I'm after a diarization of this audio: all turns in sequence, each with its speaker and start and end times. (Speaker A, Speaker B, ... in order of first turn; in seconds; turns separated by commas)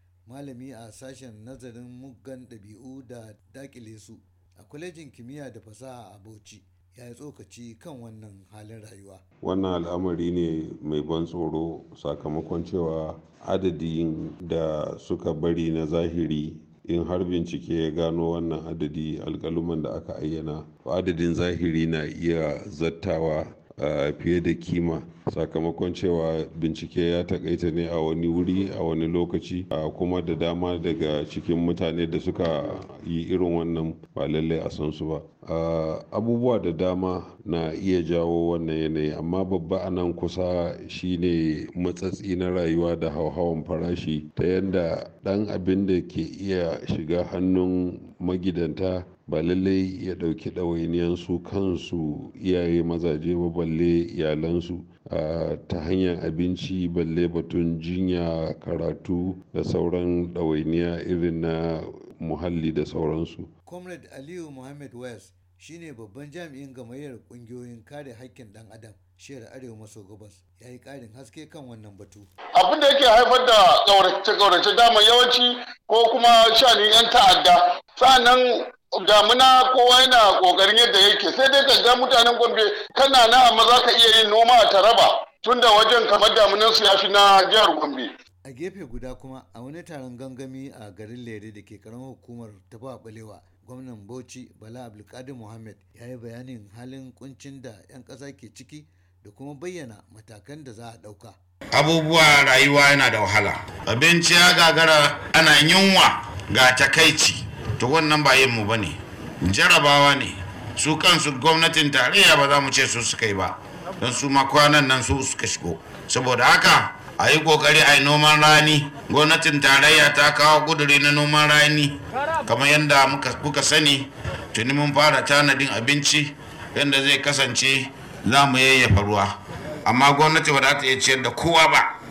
Speaker A: 0.3-9.2, Speaker B: 9.4-63.5, Speaker A: 63.6-72.3, Speaker C: 72.6-88.1, Speaker A: 88.5-101.4, Speaker D: 101.7-129.3, Speaker D: 129.9-131.9